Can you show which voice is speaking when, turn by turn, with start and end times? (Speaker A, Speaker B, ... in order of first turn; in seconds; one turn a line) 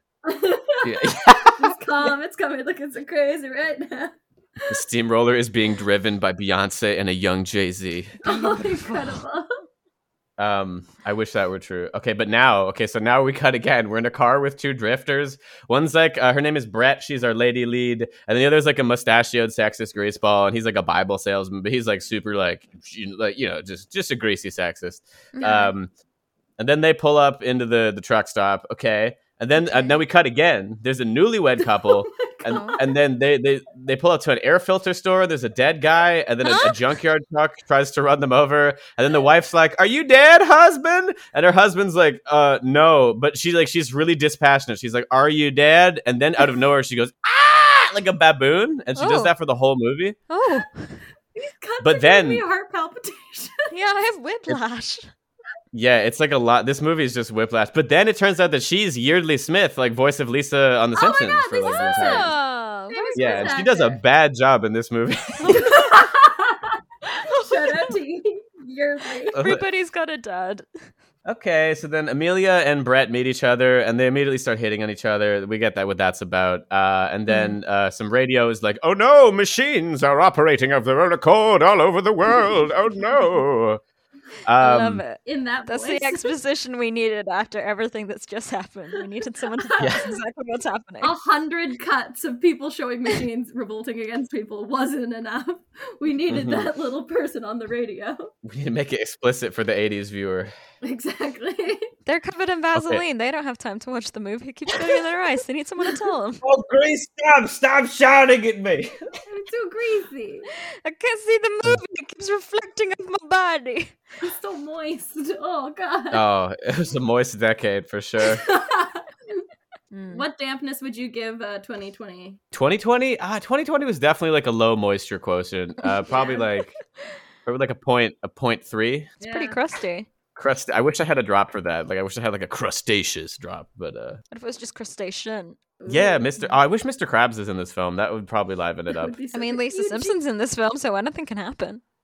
Speaker A: 0.2-4.7
Speaker B: 0.8-1.8
Speaker B: 4.7-8.2
Speaker A: 8.2-9.5
Speaker C: 8.2-9.2
Speaker B: 10.4-25.9
Speaker C: 25.3-25.7
Speaker B: 26.6-50.2
Speaker C: 29.6-30.0
Speaker A: 31.8-33.0
Speaker C: 32.5-32.8
Speaker C: 36.4-36.8
Speaker C: 49.0-49.3
Speaker C: 50.3-51.0
Speaker A: 51.3-53.7
Speaker B: 51.8-52.4
Speaker C: 53.7-55.1
Speaker B: 55.7-62.3
Speaker A: 61.0-62.4
Speaker C: 61.7-63.6
Speaker A: 62.9-64.0
Speaker B: 63.1-65.6
Speaker C: 65.4-66.1
Speaker A: 65.5-66.8
Speaker C: 67.1-68.0
Speaker A: 67.3-69.4
Speaker B: 69.3-69.6
Speaker C: 69.3-70.7
Speaker B: 71.2-83.8
Speaker C: 77.3-77.6
Speaker B: 84.5-85.0
Speaker C: 84.6-91.1
Speaker A: 85.2-86.3
Speaker B: 89.8-90.1
Speaker A: 91.0-98.3
Speaker B: 96.3-96.7
Speaker B: 98.4-100.5
Speaker A: 100.8-101.9
Speaker C: 102.1-106.4
Speaker B: 102.7-103.0
Speaker B: 106.4-109.0
Speaker A: 109.3-110.5
Speaker C: 110.8-114.0
Speaker A: 114.2-116.2
Speaker B: 116.1-118.5
Speaker A: 118.2-119.4
Speaker C: 119.9-120.3
Speaker A: 120.1-122.4
Speaker B: 122.5-126.7
Speaker C: 125.8-126.6
Speaker A: 126.1-126.4
Speaker B: 127.5-129.2
Speaker A: 129.2-129.6
Speaker C: 129.2-130.1
Speaker B: 130.3-134.2
Speaker C: 134.3-135.6
Speaker A: 135.8-136.4
Speaker B: 135.9-139.1
Speaker A: 138.9-140.2
Speaker C: 139.3-141.8